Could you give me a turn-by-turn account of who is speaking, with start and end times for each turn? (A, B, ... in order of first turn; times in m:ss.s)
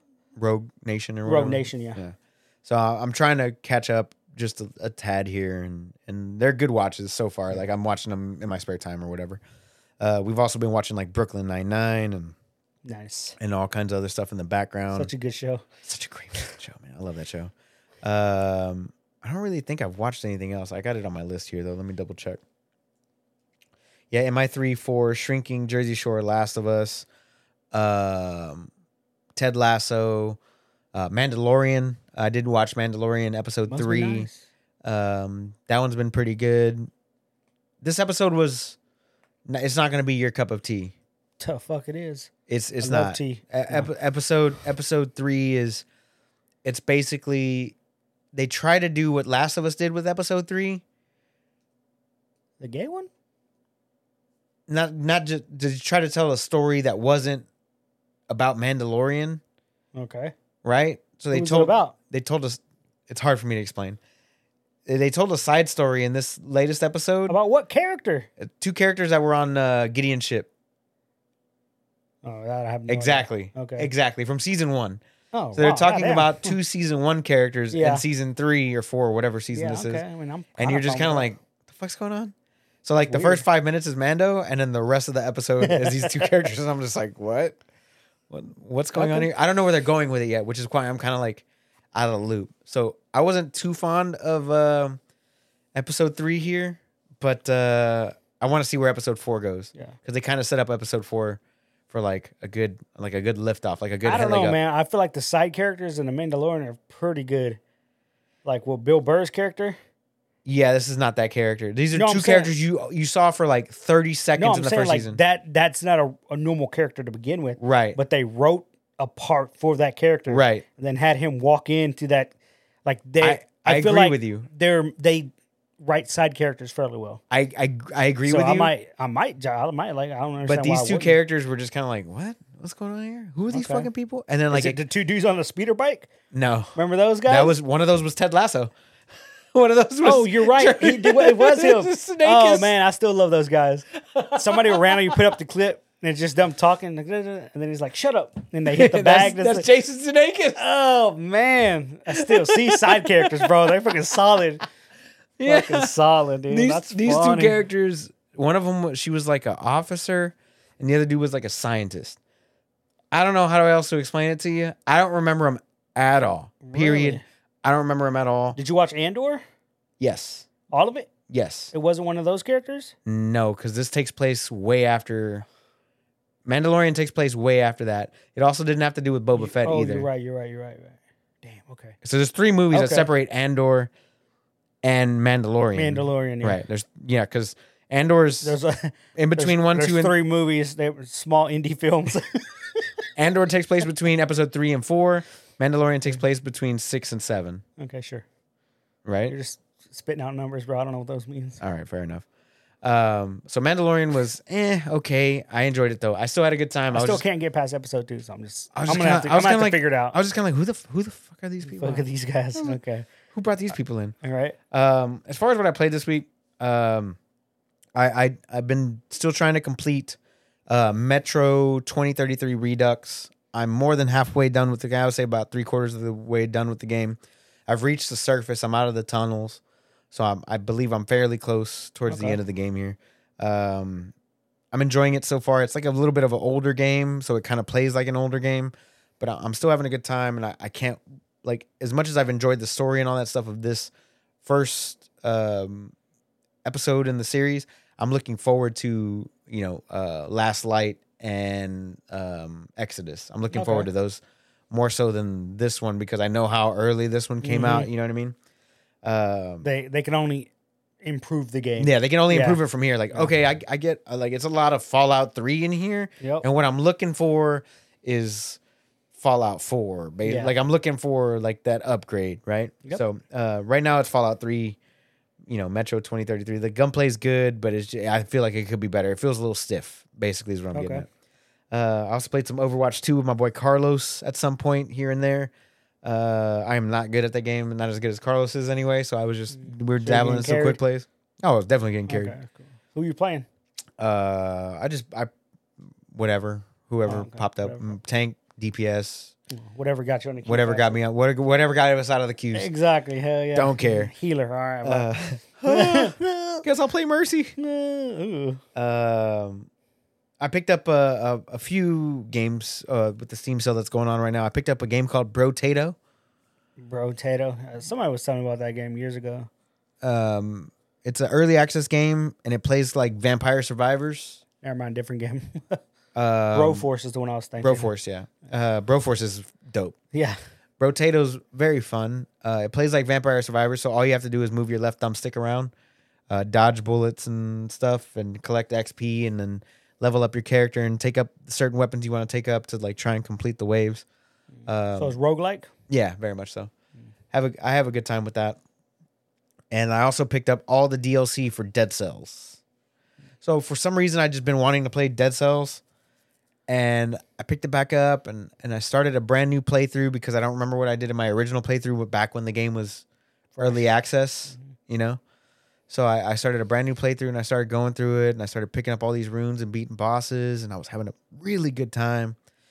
0:00.4-0:09.4 A
0:01.2-0:02.0 B
0:10.0-0:12.4 A
0:12.8-0:13.4 B
0:13.4-0:15.1 A
0:14.9-0:15.6 B
0:15.8-0:22.4 A
0:24.1-0:27.1 A
0:27.7-0:28.7 A
0:29.4-0:30.4 A
0:30.9-0:34.3 A
0:33.7-0:34.4 B
0:34.8-0:36.9 A
0:37.8-0:38.8 A
0:39.5-0:41.0 A
0:41.4-0:42.3 B
0:42.5-0:45.8 A
0:42.8-0:43.9 B
0:46.6-0:47.8 A
0:48.3-0:50.8 A
0:52.6-0:53.1 B
0:54.7-0:57.5 A
0:58.3-0:59.4 A
1:00.0-1:00.3 B
1:00.6-1:04.0 A
1:01.3-1:02.0 B
1:04.9-1:07.4 A
1:07.3-1:08.3 B
1:08.4-1:10.5 A
1:12.2-1:13.9 B
1:12.9-1:15.0 A
1:15.3-1:16.6 B
1:15.6-1:20.0 A
1:17.7-1:18.0 B
1:19.5-1:21.3 B
1:20.6-1:27.6 A
1:23.0-1:23.4 B
1:25.6-1:26.3 B
1:28.3-1:35.0 A
1:29.0-1:29.3 B
1:35.7-1:44.6 A
1:44.0-1:47.6 B
1:48.4-1:49.8 B
1:50.4-1:55.2 A
1:51.9-1:52.5 B
1:54.4-2:02.3 B
1:57.6-1:58.0 A
2:00.3-2:00.6 A
2:02.9-2:07.2 B
2:03.2-2:04.5 A
2:07.3-2:08.7 A
2:08.3-2:11.2 B
2:10.5-2:14.8 A
2:13.5-2:13.9 B
2:14.5-2:16.1 B
2:16.3-2:18.7 A
2:16.8-2:17.6 B
2:19.5-2:22.7 A
2:20.0-2:29.7 B
2:24.0-2:25.3 A
2:28.7-2:30.6 A
2:30.6-2:34.6 B
2:32.1-2:34.0 A
2:35.4-2:42.2 A
2:35.4-2:37.6 B
2:43.1-2:48.6 A
2:46.6-2:47.2 B
2:48.6-2:49.4 B
2:50.0-2:50.5 A
2:50.7-2:51.1 B
2:51.3-2:51.7 A
2:51.7-2:53.0 B
2:53.1-2:55.5 A
2:56.4-3:00.1 A
2:59.3-3:02.0 B
3:02.0-3:03.9 A
3:02.7-3:03.1 B
3:04.8-3:08.6 A
3:05.7-3:06.6 B
3:08.4-3:12.9 B
3:09.2-3:10.2 A
3:13.2-3:17.6 A
3:17.8-3:18.2 B
3:19.0-3:19.4 A
3:19.3-3:21.6 B
3:21.6-3:22.2 A
3:22.8-3:27.2 A
3:26.9-3:30.2 B
3:28.8-3:32.0 A
3:31.6-3:33.1 B
3:33.3-3:34.2 A
3:34.2-3:34.6 B
3:34.7-3:37.2 A
3:38.0-3:40.2 A
3:40.7-3:54.1 A
3:52.1-3:52.4 B
3:54.7-4:03.9 A
4:04.4-4:05.9 A
4:06.6-4:18.4 A
4:13.5-4:13.9 B
4:17.4-4:17.9 B
4:19.0-4:19.7 A
4:19.6-4:20.5 B
4:21.0-4:22.6 B
4:21.8-4:28.6 A
4:26.2-4:26.5 B
4:29.1-4:34.8 A
4:30.2-4:30.5 B
4:35.5-4:41.1 A
4:40.7-4:41.1 B
4:41.7-4:45.5 A
4:46.0-4:52.4 A
4:49.5-4:50.8 B
4:52.1-4:53.5 B
4:54.0-4:55.3 A
4:55.9-4:59.3 A
4:57.0-4:58.0 B
4:59.6-5:01.0 B
5:00.5-5:02.7 A
5:02.5-5:05.1 B
5:03.6-5:04.1 A
5:04.8-5:07.6 A
5:05.6-5:06.6 B
5:07.6-5:08.6 B
5:08.8-5:09.7 A
5:10.4-5:16.0 A
5:16.8-5:19.5 B
5:20.0-5:24.4 A
5:24.6-5:25.8 B
5:26.1-5:26.9 A
5:26.5-5:27.9 B
5:27.6-5:30.0 A
5:30.8-5:35.7 A
5:36.3-5:44.0 A
5:44.7-5:45.2 A
5:45.0-5:45.7 B
5:45.9-5:46.7 A
5:47.3-5:48.6 A
5:49.7-5:52.6 A
5:53.4-5:55.8 A
5:56.7-6:03.0 A
6:03.6-6:03.9 B
6:03.6-6:05.2 A
6:05.9-6:12.4 A